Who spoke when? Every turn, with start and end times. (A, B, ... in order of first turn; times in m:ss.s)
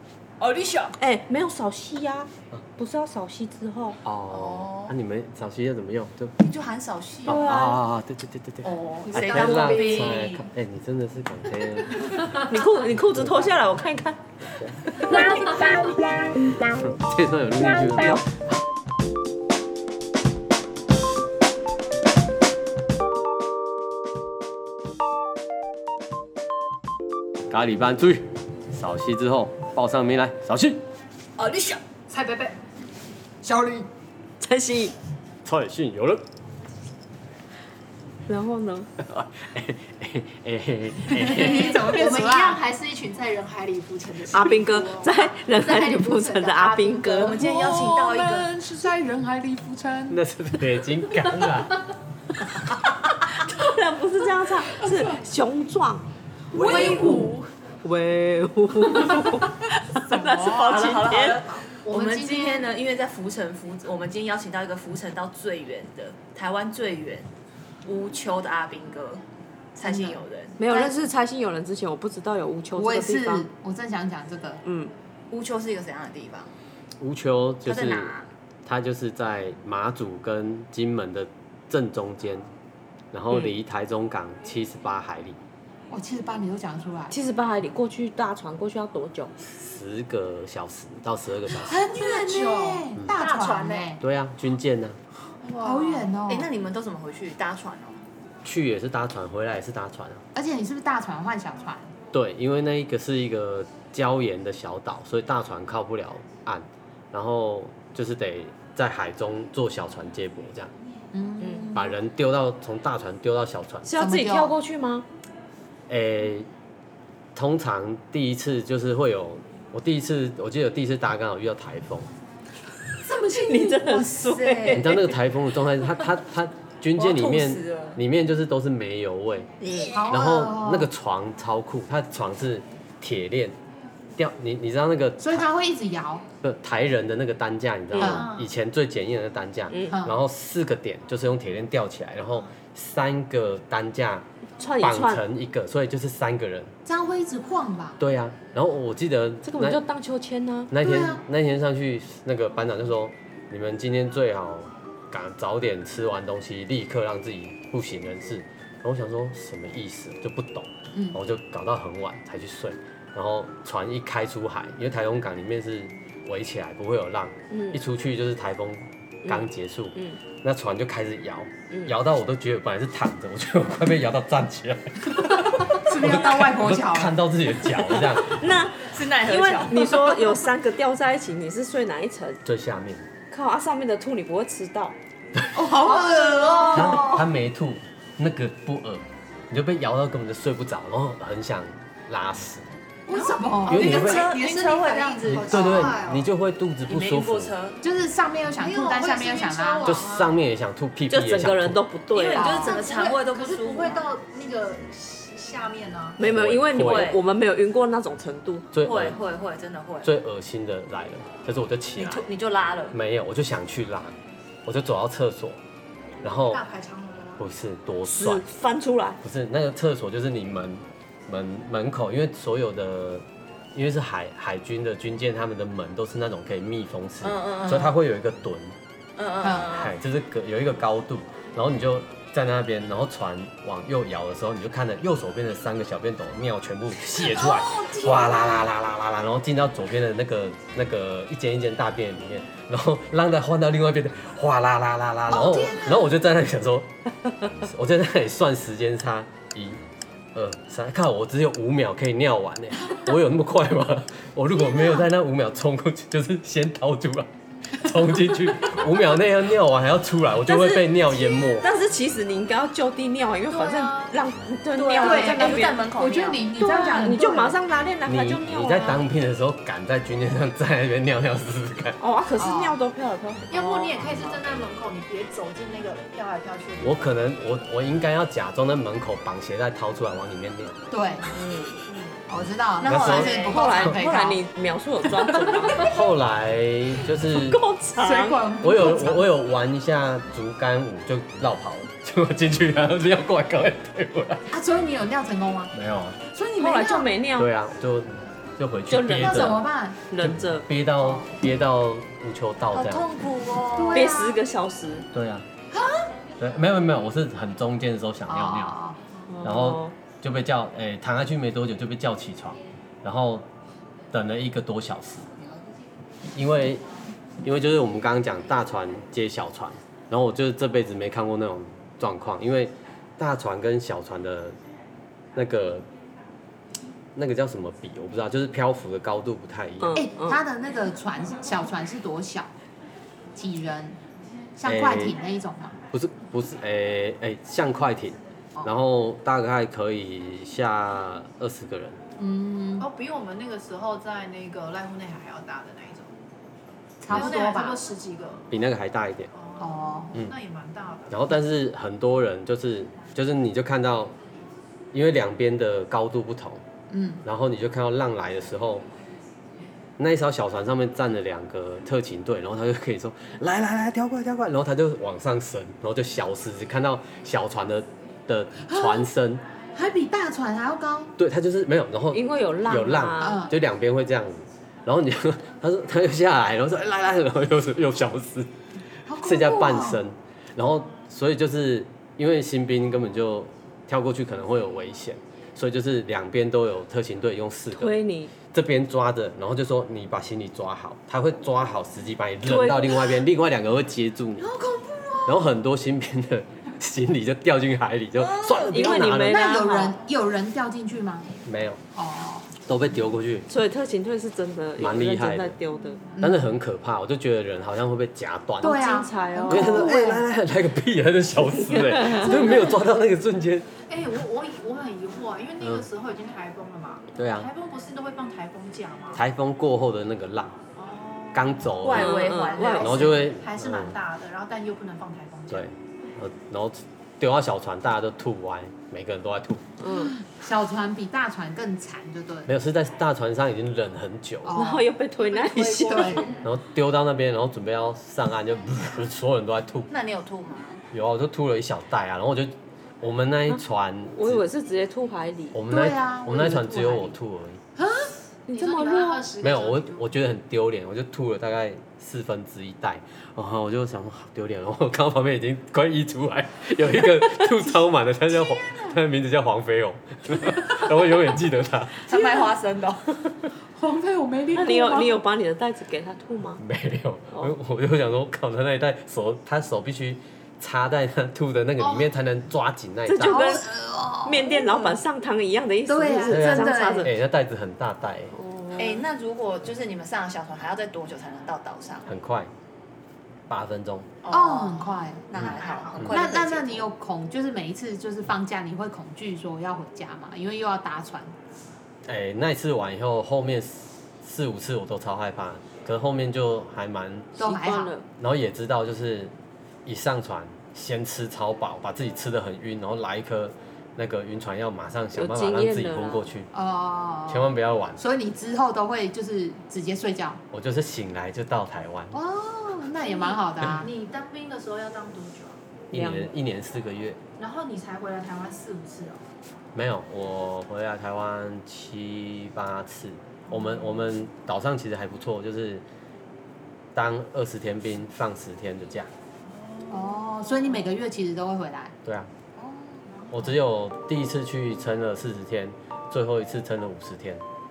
0:00.4-0:01.0 A
0:01.0-0:04.0 B
0:04.0-0:06.3 C
0:04.3-0:04.9 A
0:06.4-0:07.4 A
0:07.2-0:07.8 B
0:07.2-0:12.4 C
0:08.6-0:10.4 A
0:09.1-0:10.3 D
0:09.4-0:10.0 B
0:12.5-0:14.2 B
0:13.1-0:13.5 C
0:14.5-0:14.8 C
0:15.0-0:15.9 B
0:15.3-0:15.8 A
0:16.7-0:18.4 C
0:17.8-0:18.2 B
0:27.5-0:30.8 C
0:31.4-0:32.6 D
0:33.4-0:33.9 E
0:34.4-0:34.9 B
0:35.4-0:36.2 C
0:38.3-0:38.9 B
0:39.0-0:41.8 C
0:41.1-0:42.6 E
0:41.2-0:47.4 D
0:44.3-0:47.4 B
0:47.1-0:48.5 A
0:47.3-0:50.2 E
0:50.1-0:51.8 C
0:53.2-0:56.0 B
0:54.7-0:55.1 E
0:56.5-0:57.5 D
0:56.5-0:57.4 E
0:56.6-0:57.2 A
0:56.6-0:57.2 B
0:57.8-1:01.4 B
0:59.0-0:59.4 E
1:00.0-1:01.0 E
1:00.6-1:07.3 A
1:01.0-1:01.6 D
1:01.8-1:02.6 E
1:07.8-1:09.2 A
1:09.7-1:10.9 A
1:09.8-1:10.2 E
1:10.6-1:13.4 B
1:12.7-1:14.6 E
1:14.6-1:14.9 B
1:15.3-1:16.5 A
1:17.0-1:18.1 C
1:17.6-1:18.3 A
1:18.6-1:22.5 C
1:23.1-1:25.4 C
1:23.3-1:23.5 B
1:25.9-1:27.1 E
1:27.1-1:29.3 B
1:29.4-1:31.8 C
1:31.5-1:34.0 E
1:31.9-1:32.9 D
1:33.1-1:33.9 A
1:34.0-1:35.0 C
1:35.4-1:36.1 D
1:35.6-1:36.5 E
1:36.2-1:38.0 A
1:38.4-1:40.2 C
1:40.3-1:41.9 E
1:42.1-1:50.7 C
1:51.1-1:51.9 E
1:51.4-1:51.7 B
1:51.7-1:53.9 C
1:53.8-1:55.1 B
1:54.0-1:54.5 E
1:55.9-1:56.5 C
1:57.3-2:02.1 C
2:03.0-2:04.2 E
2:03.1-2:05.0 B
2:04.2-2:05.0 A
2:04.7-2:09.5 C
2:06.9-2:08.0 A
2:09.6-2:10.0 B
2:09.9-2:10.9 E
2:10.1-2:13.6 C
2:14.2-2:15.4 C
2:15.2-2:16.2 E
2:16.4-2:24.2 C
2:18.0-2:18.3 E
2:18.0-2:18.5 D
2:19.7-2:20.0 B
2:19.9-2:20.2 E
2:24.6-2:25.2 B
2:24.8-2:26.7 C
2:26.8-2:28.0 E
2:28.0-2:29.8 C
2:29.4-2:30.7 B
2:30.7-2:58.4 C
2:30.8-2:31.2 E
2:40.9-2:41.2 E
2:47.5-2:47.8 B
2:49.2-2:50.2 B
2:55.1-2:57.4 E
2:57.8-3:02.4 B
2:58.8-3:00.2 A
3:02.4-3:03.0 C
3:03.3-3:05.0 B
3:05.5-3:07.3 E
3:05.9-3:06.7 D
3:06.7-3:12.6 C
3:13.1-3:16.0 E
3:13.1-3:16.3 D
3:13.6-3:14.2 C
3:13.6-3:15.9 A
3:15.2-3:17.5 C
3:16.9-3:17.8 A
3:17.8-3:20.0 E
3:18.6-3:20.4 D
3:19.8-3:21.8 C
3:21.1-3:22.5 B
3:22.1-3:26.2 D
3:22.1-3:24.0 A
3:22.4-3:22.8 E
3:26.2-3:28.7 B
3:26.2-3:27.2 C
3:26.7-3:27.2 A
3:28.7-3:29.2 C
3:28.8-3:30.1 A
3:30.0-3:32.2 C
3:32.0-3:33.0 A
3:32.9-3:35.6 C
3:36.2-3:36.6 C
3:36.3-3:37.4 D
3:37.4-3:38.4 C
3:38.1-3:39.2 B
3:39.2-3:48.7 C
3:47.2-3:47.9 A
3:49.2-3:49.9 A
3:49.4-3:49.7 E
3:49.7-4:07.0 C
3:57.1-3:58.7 E
4:05.3-4:06.1 E
4:07.5-4:09.8 C
4:10.3-4:21.7 C
4:20.5-4:25.7 B
4:23.5-4:24.2 D
4:24.8-4:27.6 E
4:24.8-4:25.5 D
4:24.9-4:26.5 A
4:26.5-4:29.0 B
4:28.0-4:32.0 C
4:32.0-4:33.7 B
4:32.4-4:32.8 E
4:33.5-4:37.0 D
4:33.7-4:34.4 E
4:36.8-4:40.8 C
4:40.9-4:41.4 E
4:41.3-4:41.8 B
4:42.3-4:44.4 E
4:42.8-4:43.9 A
4:42.8-4:43.4 C
4:43.3-4:45.9 B
4:45.0-4:45.8 E
4:45.7-4:47.6 C
4:47.4-4:48.5 B
4:47.9-4:49.3 E
4:48.6-4:54.5 C
4:54.5-4:55.7 E
4:55.7-4:56.2 C
4:56.2-4:57.1 E
4:56.6-4:57.5 B
4:57.4-4:59.6 C
4:58.9-5:00.7 B
4:59.2-5:00.0 E
5:00.2-5:03.0 C
5:01.0-5:01.3 E
5:02.7-5:04.2 A
5:03.8-5:04.4 E
5:03.9-5:05.1 B
5:05.1-5:05.4 C
5:06.4-5:08.7 C
5:08.3-5:09.0 E
5:09.3-5:10.0 B
5:09.4-5:13.4 C
5:14.1-5:15.3 C
5:16.3-5:16.8 C
5:17.4-5:24.6 C
5:25.3-5:25.9 C
5:27.1-5:30.0 C
5:29.8-5:30.4 B
5:29.9-5:32.5 E
5:33.3-5:34.0 E
5:34.6-5:35.8 E
5:34.6-5:35.2 C
5:35.9-5:42.0 C
5:42.2-5:42.9 E
5:42.8-5:46.1 D
5:47.0-5:47.8 E
5:47.1-5:48.5 D
5:48.5-5:49.3 C
5:49.3-5:51.3 D
5:49.6-5:50.1 E
5:51.1-5:54.1 C
5:54.9-5:56.6 C
5:56.9-5:57.2 E
5:57.2-5:58.8 C
6:00.0-6:09.4 C
6:08.7-6:09.1 E
6:09.7-6:11.1 E
6:11.2-6:18.5 C
6:12.1-6:13.4 B
6:13.2-6:13.5 E
6:19.0-6:20.0 E
6:19.2-6:28.0 C
6:27.7-6:28.3 B
6:28.5-6:34.5 C
6:32.4-6:33.2 B
6:34.4-6:35.4 E
6:35.2-6:39.6 C
6:38.6-6:41.3 E
6:38.7-6:40.0 B
6:41.4-6:41.8 C
6:41.9-6:42.5 E
6:42.6-6:43.5 C
6:43.5-6:46.0 B
6:44.8-6:45.6 C
6:46.1-6:46.4 E
6:46.2-6:53.6 C
6:48.6-6:50.2 E
6:48.6-6:49.9 B
6:51.6-6:52.7 B
6:53.9-6:59.2 D
6:55.6-6:55.8 C
6:57.2-6:57.5 C
6:59.1-7:00.6 C
7:00.7-7:01.8 D
7:01.3-7:02.3 C
7:01.8-7:03.2 A
7:01.9-7:03.2 B
7:02.4-7:05.7 D
7:02.8-7:04.0 C
7:05.5-7:09.7 C
7:09.8-7:10.2 B
7:09.8-7:12.5 E
7:12.5-7:14.6 C
7:14.4-7:14.9 E
7:14.5-7:16.2 B
7:15.2-7:16.4 D
7:15.8-7:16.3 E
7:16.4-7:19.9 C
7:19.9-7:20.8 A
7:20.9-7:24.4 C
7:24.1-7:25.6 B
7:25.5-7:27.6 C
7:25.7-7:27.2 E
7:27.8-7:29.2 E
7:28.5-7:29.2 B
7:28.5-7:30.1 D
7:29.4-7:42.0 C
7:38.3-7:39.0 E
7:42.0-7:43.2 A
7:42.1-7:42.5 E
7:43.7-7:45.2 E
7:44.5-7:46.6 B
7:46.6-7:53.5 C
7:51.8-7:52.1 D
7:53.1-7:53.7 B
7:53.2-7:55.0 E
7:54.2-7:57.1 B
7:55.8-7:57.1 E
7:56.3-7:58.3 C
7:58.3-7:59.0 B
7:58.7-8:02.0 A
8:02.0-8:02.5 C
8:03.5-8:04.1 C
8:04.2-8:06.9 A
8:04.3-8:11.4 E
8:05.4-8:06.2 C
8:05.6-8:06.0 D
8:12.1-8:17.4 C
8:17.4-8:17.9 E
8:17.4-8:18.0 B
8:18.2-8:19.3 C
8:19.8-8:26.5 C
8:25.1-8:26.3 B
8:26.5-8:30.4 E
8:27.3-8:28.0 C
8:30.5-8:32.1 C
8:32.1-8:33.9 E
8:33.0-8:35.6 D
8:35.9-8:37.2 C
8:35.9-8:36.3 B
8:37.4-8:39.2 D
8:39.7-8:45.8 C
8:43.5-8:44.1 D
8:46.9-8:49.1 C
8:49.4-8:50.9 D
8:49.9-8:51.9 E
8:52.0-8:52.3 C
8:52.6-8:53.0 E
8:53.3-8:57.4 C